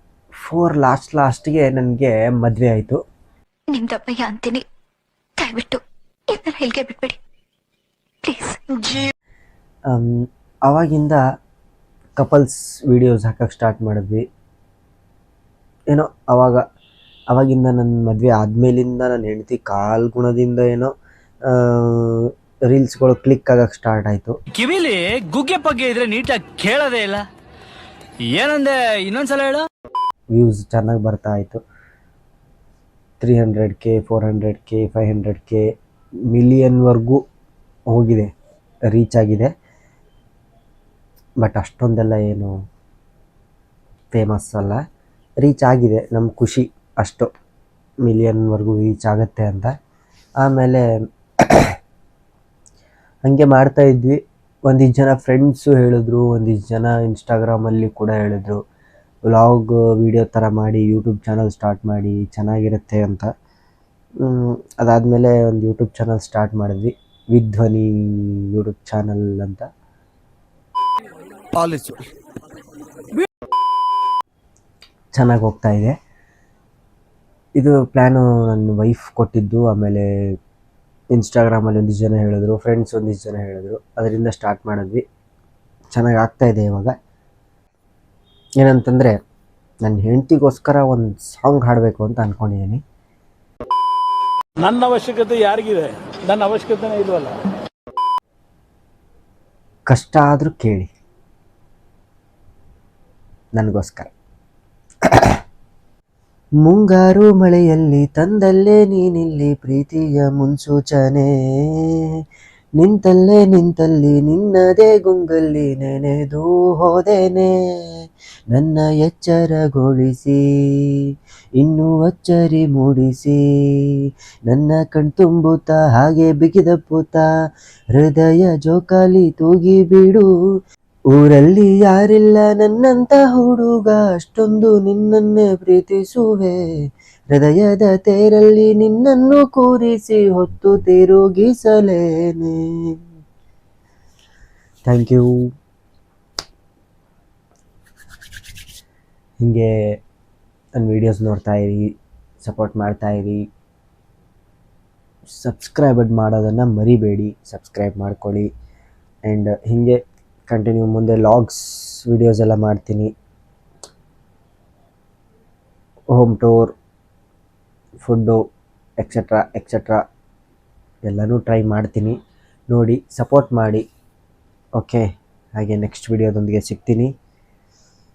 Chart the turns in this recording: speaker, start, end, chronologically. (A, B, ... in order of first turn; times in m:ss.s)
0:00.4-0:03.0 A
0:03.7-0:04.6 B
0:05.4-0:05.8 B
0:06.3-0:07.2 B
0:08.2-0:09.1 B
0:09.9-0:11.2 A
0:12.2-0:14.2 A
0:15.9-0:16.6 A
0:17.3-0:20.9 A
0:21.5-0:24.3 A
0:24.6-0:27.2 C
0:28.2-0:29.6 C
0:30.3-0:31.6 A
0:33.2-0:35.6 A
0:36.3-0:37.2 A
0:37.9-0:38.3 A
0:38.9-0:39.5 A
0:41.4-0:42.5 A
0:44.1-0:44.8 A
0:45.4-0:47.3 A
0:48.0-0:49.7 A
0:50.4-0:50.8 A
0:51.4-0:51.8 A
0:53.2-0:58.6 A
0:59.2-1:03.3 A
1:04.2-1:09.7 A
1:11.6-1:12.0 C
1:15.1-1:15.9 A
1:17.6-1:20.1 A
1:21.1-1:25.0 A
1:25.9-1:26.9 A
1:28.6-1:29.2 A
1:29.8-1:32.8 A
1:34.6-1:37.4 D
1:39.9-1:40.9 A
1:43.6-1:44.1 A
1:45.1-1:45.4 A
1:46.6-1:52.0 A
1:52.8-1:57.9 A
1:58.5-2:01.0 A
2:01.6-2:04.0 A
2:04.5-2:07.3 A
2:07.9-2:10.3 A
2:11.1-2:16.6 A
2:17.3-2:23.0 A
2:24.8-2:25.3 A
2:29.4-2:30.0 A
2:30.8-2:33.5 A
2:35.2-2:38.5 A
2:39.2-2:43.1 A
2:46.1-2:46.7 A
2:48.0-2:48.4 A
2:49.0-2:50.0 A
2:51.0-2:52.2 A
2:52.7-2:53.8 A
2:54.8-2:55.0 A
2:55.6-2:57.1 A